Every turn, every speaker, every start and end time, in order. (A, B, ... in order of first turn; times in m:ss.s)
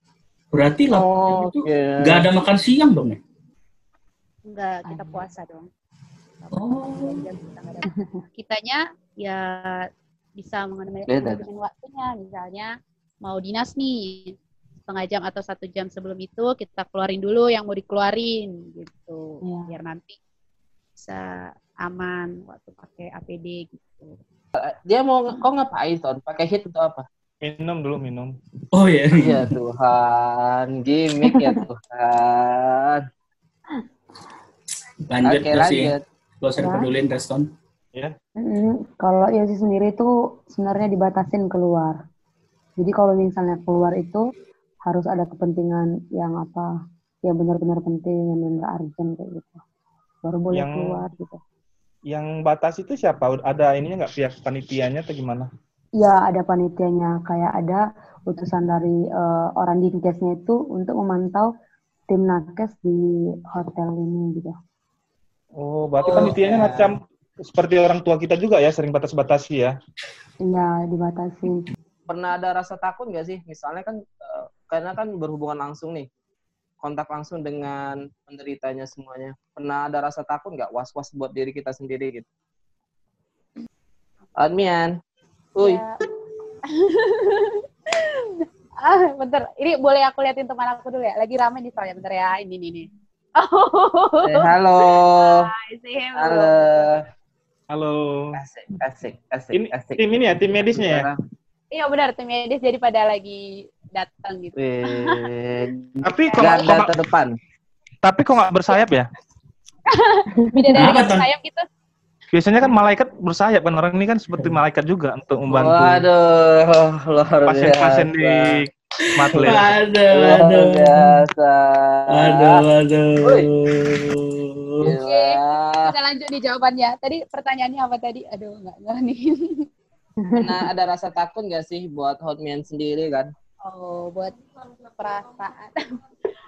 0:00.5-0:03.2 A
0:00.9-0:02.2 B
0:04.5-0:05.7 C
0:04.8-0:05.2 D
0:06.4-0:09.9 C
0:06.5-0:07.2 A
0:10.4-0:12.7 C
0:11.1-0:11.4 B
0:13.2-0:14.3 C
0:14.9-0:20.2 C
0:19.4-0:19.7 D
0:21.0-0:21.2 C
0:21.8-0:24.2 C
0:24.6-0:27.0 B
0:27.4-0:28.3 E
0:28.7-0:29.5 A
0:29.1-0:33.0 B
0:31.2-0:31.6 D
0:35.1-0:37.5 A
0:35.2-0:36.0 B
0:36.6-0:36.9 D
0:38.4-0:42.0 D
0:42.8-0:44.2 D
0:44.8-0:46.7 D
0:47.2-0:49.6 D
0:50.2-0:51.4 D
0:50.5-0:51.0 E
0:52.1-0:55.5 E
0:56.0-0:57.8 D
0:58.3-1:01.5 D
1:02.1-1:04.5 D
1:05.6-1:09.7 E
1:06.0-1:06.9 B
1:10.4-1:11.6 D
1:12.1-1:16.1 B
1:16.8-1:22.2 B
1:24.4-1:24.9 B
1:25.6-1:25.8 B
1:25.6-1:25.9 C
1:26.7-1:32.9 C
1:33.4-1:36.9 C
1:34.2-1:35.4 B
1:36.2-1:37.0 B
1:37.7-1:38.4 E
1:38.3-1:41.2 B
1:39.5-1:41.1 E
1:41.7-1:45.3 C
1:44.6-1:47.3 B
1:46.0-1:46.9 E
1:46.1-1:46.8 C
1:48.0-1:49.1 E
1:49.9-1:51.6 C
1:50.4-1:51.0 D
1:50.8-1:51.3 A
1:52.3-1:56.1 E
1:55.5-1:58.6 B
1:57.4-1:59.7 E
1:59.0-2:01.0 A
1:59.3-1:59.6 B
2:00.1-2:02.6 B
2:02.1-2:04.9 A
2:03.2-2:03.5 B
2:04.8-2:05.9 B
2:05.0-2:09.6 C
2:10.2-2:10.6 D
2:10.4-2:13.3 B
2:13.6-2:15.8 C